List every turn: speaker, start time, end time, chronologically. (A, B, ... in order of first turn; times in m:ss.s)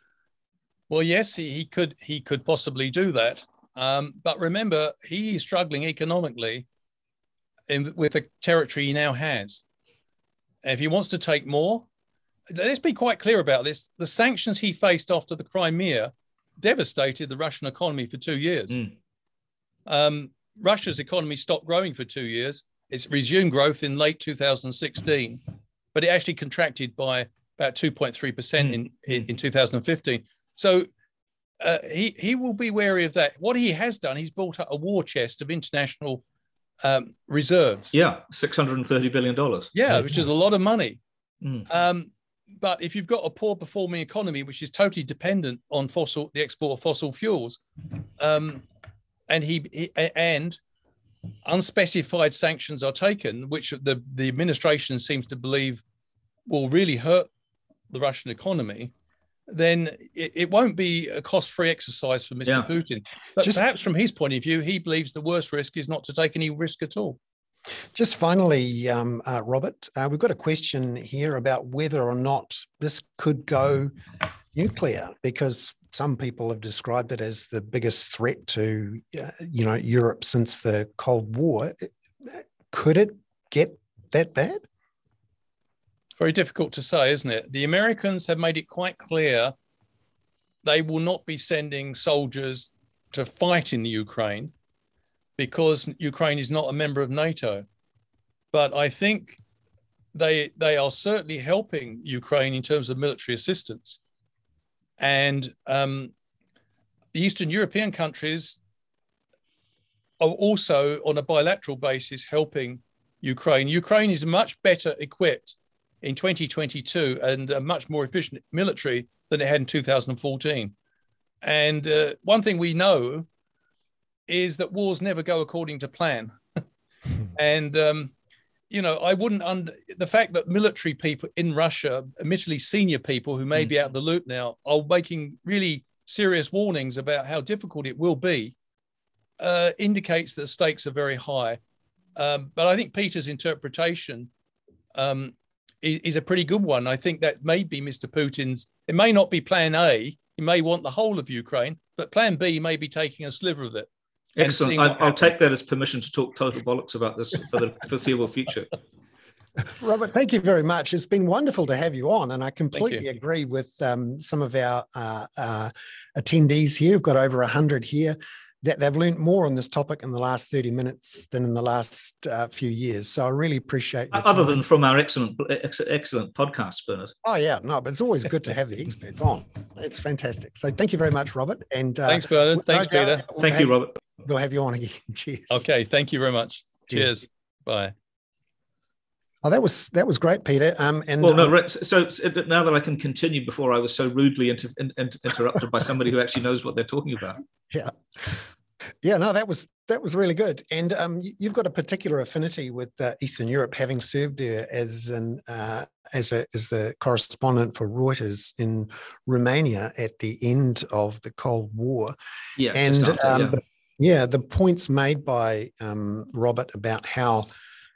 0:00.9-0:06.7 A
0:07.7-0:09.6 A
0:10.6-0:11.9 A
0:12.5-0:18.8 A
0:19.9-0:25.4 A
0:25.9-0:30.9 A
0:28.6-0:29.2 B
0:31.6-0:36.2 A
0:36.8-0:38.0 A
0:37.9-0:39.7 B
0:39.7-0:41.0 A
0:41.4-0:41.7 B
0:41.7-0:48.7 A
0:49.3-0:50.6 A
0:51.4-0:55.8 A
0:56.5-0:57.3 A
0:57.9-0:58.9 A
0:59.5-1:07.2 A
1:08.0-1:13.9 C
1:14.5-1:24.6 C
1:26.2-1:29.5 A
1:30.6-1:34.5 A
1:35.4-1:37.7 A
1:38.5-1:39.4 A
1:40.1-1:44.0 A
1:45.0-1:46.1 A
1:47.1-1:48.6 A
1:50.2-2:00.7 A
2:01.4-2:03.3 A
2:04.3-2:06.3 A
2:07.3-2:08.1 A
2:08.7-2:18.6 A
2:19.4-2:21.6 A
2:22.2-2:24.3 A
2:24.9-2:33.9 A
2:34.4-2:38.7 B
2:34.4-2:35.2 A
2:39.6-2:54.6 C
2:42.7-2:43.0 A
2:54.1-2:57.1 B
2:57.2-3:05.6 C
3:02.1-3:03.3 A
3:03.4-3:03.9 B
3:05.5-3:07.9 A
3:09.4-3:11.5 C
3:11.2-3:17.4 B
3:17.7-3:18.4 C
3:19.0-3:32.2 C
3:32.6-3:33.6 B
3:32.7-3:37.5 C